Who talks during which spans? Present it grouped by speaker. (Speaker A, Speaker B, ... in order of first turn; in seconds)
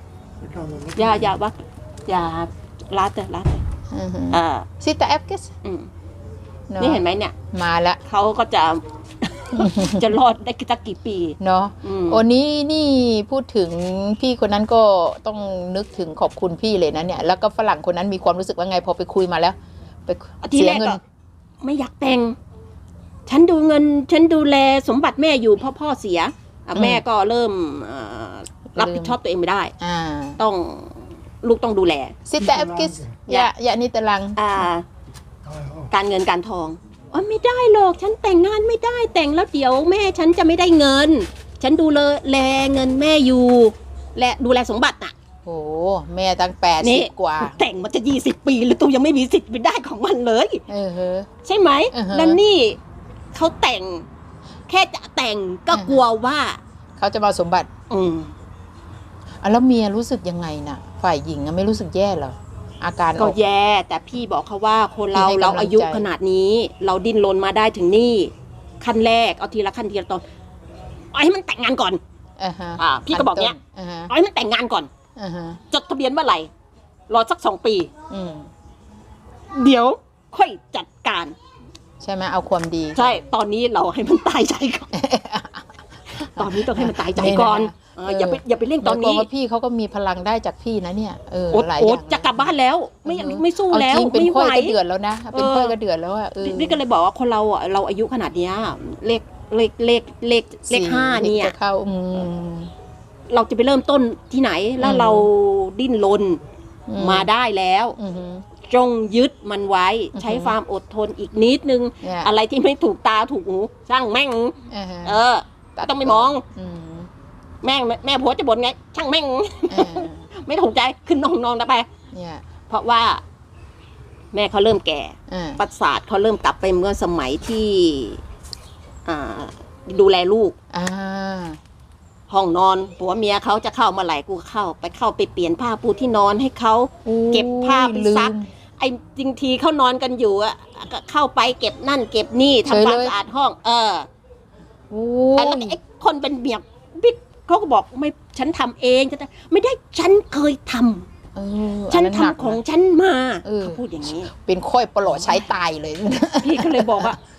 Speaker A: 0.4-1.3, 32.4-33.2, 35.4-35.9
Speaker B: 0.9-3.6, 4.3-4.7, 5.6-5.9, 6.8-7.3, 8.0-12.2, 20.4-21.0, 21.6-22.4, 23.3-29.7, 30.4-32.2, 34.4-34.8, 35.9-45.1, 46.8-50.6, 51.4-52.8, 53.3-54.0, 54.7-56.6, 57.9-58.3, 63.2-70.2, 71.1-72.0, 72.8-73.5, 74.1-74.9, 75.7-76.5, 77.1-77.9, 79.5-81.3, 82.9-84.9, 86.1-89.3, 91.5-94.8, 95.3-95.7, 96.4-101.5, 103.3-106.4, 107.0-108.0, 108.6-116.4, 117.6-121.9, 122.7-123.2, 124.3-128.2, 129.0-130.5, 132.3-144.1, 145.3-151.1, 151.9-154.3, 156.4-157.2
Speaker C: 3.9-5.5, 6.7-8.0, 9.5-10.1, 11.4-21.0, 26.7-27.0, 28.7-29.2, 29.8-30.4, 32.3-34.4, 45.4-47.6, 50.7-51.3, 51.9-52.4, 55.7-56.0, 57.0-57.7, 59.4-63.4, 65.1-66.0, 72.4-74.1, 75.2-75.6, 78.1-78.5, 82.0-83.2, 84.9-85.7, 86.3-92.5, 93.0-96.8, 100.7-102.7, 104.8-105.3, 106.9-107.3, 108.0-108.4, 110.1-110.5, 112.0-112.3, 114.7-115.2, 115.9-117.1, 119.7-120.2, 122.1-122.4, 125.3-125.6, 130.7-131.6, 137.0-138.5, 142.7-143.1, 144.9-145.8, 151.3-152.6, 153.4-157.2